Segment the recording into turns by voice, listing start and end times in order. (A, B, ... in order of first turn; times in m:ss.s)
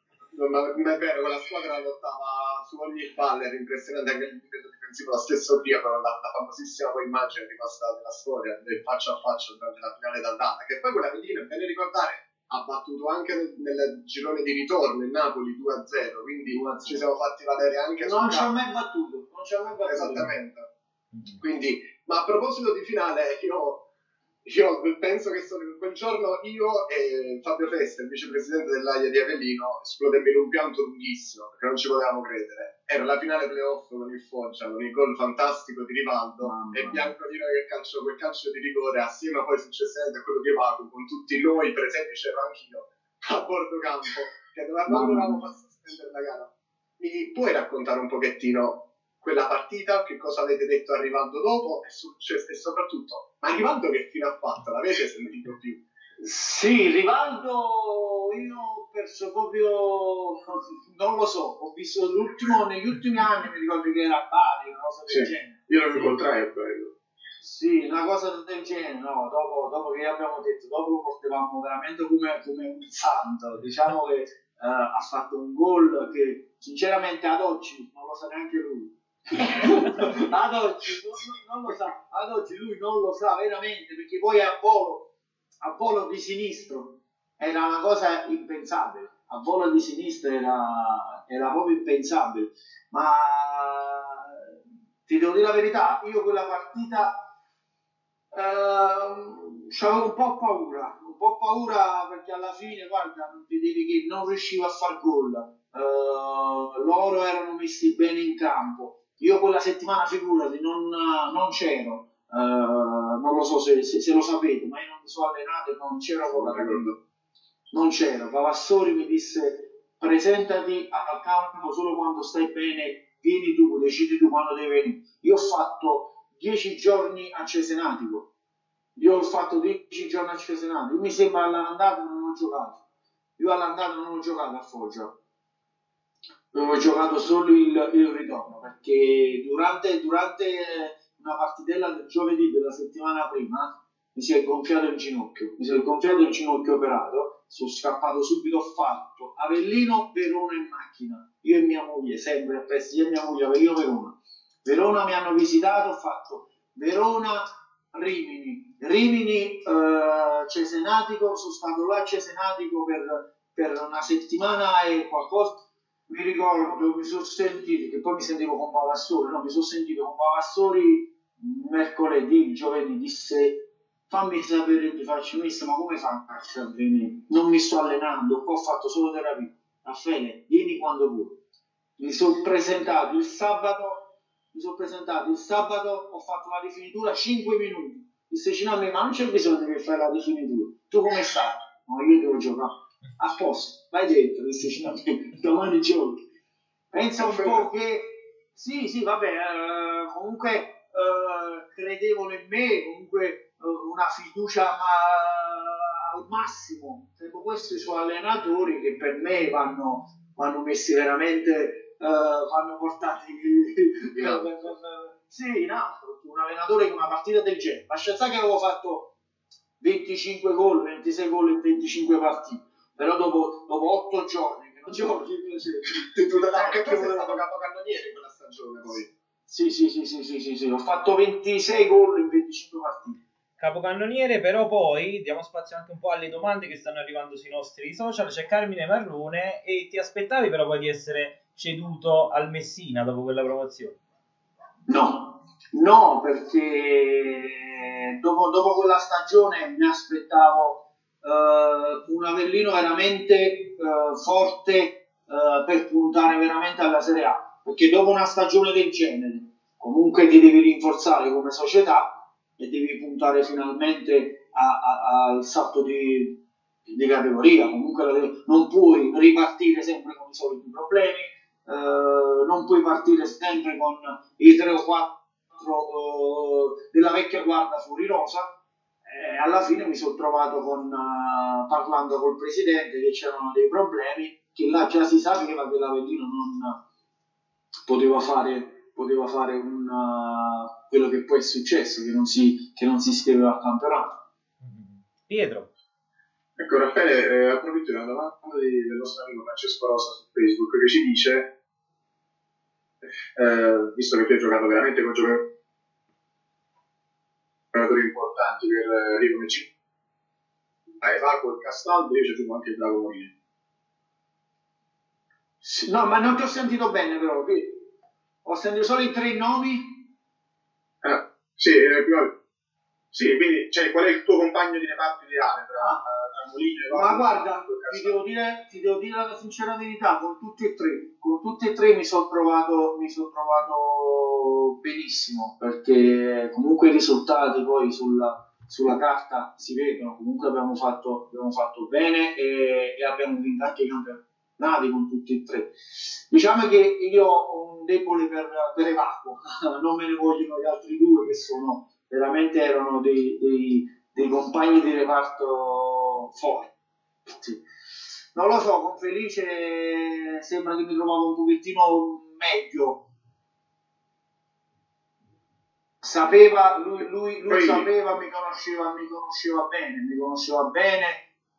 0:00.3-0:18.5 A
0:16.5-0:17.0 B
0:18.0-0:20.4 B
0:19.8-0:20.6 A
0:21.4-0:23.9 A
0:24.4-0:55.8 A
0:36.4-0:37.1 B
0:44.9-0:45.4 B
0:56.2-1:05.7 B
1:05.7-1:06.9 C
1:07.4-1:34.4 B
1:35.1-1:37.3 B
1:38.3-1:56.9 B
1:56.4-1:56.9 C
1:57.7-2:08.3 B
2:09.0-2:12.8 B
2:13.4-2:15.1 B
2:16.5-3:01.4 B
3:02.0-3:16.2 B
3:16.9-3:39.1 B
3:17.3-3:17.5 A
3:39.8-3:47.4 B
3:46.1-3:49.1 A
3:49.5-3:53.2 B
3:53.6-4:04.0 D
4:04.9-4:38.5 B
4:39.1-4:46.8 B
4:47.9-4:54.2 B
4:54.6-4:55.7 D
4:56.6-5:01.5 C
5:03.4-5:05.5 C
5:07.7-5:09.7 C
5:11.0-5:13.3 C
5:15.6-5:17.9 B
5:18.4-5:20.1 B
5:21.0-5:22.4 C
5:23.1-5:28.1 C
5:26.9-5:56.7 B
5:57.3-5:57.6 B
5:58.3-6:03.1 B
6:06.0-6:11.2 B
6:07.6-6:07.8 C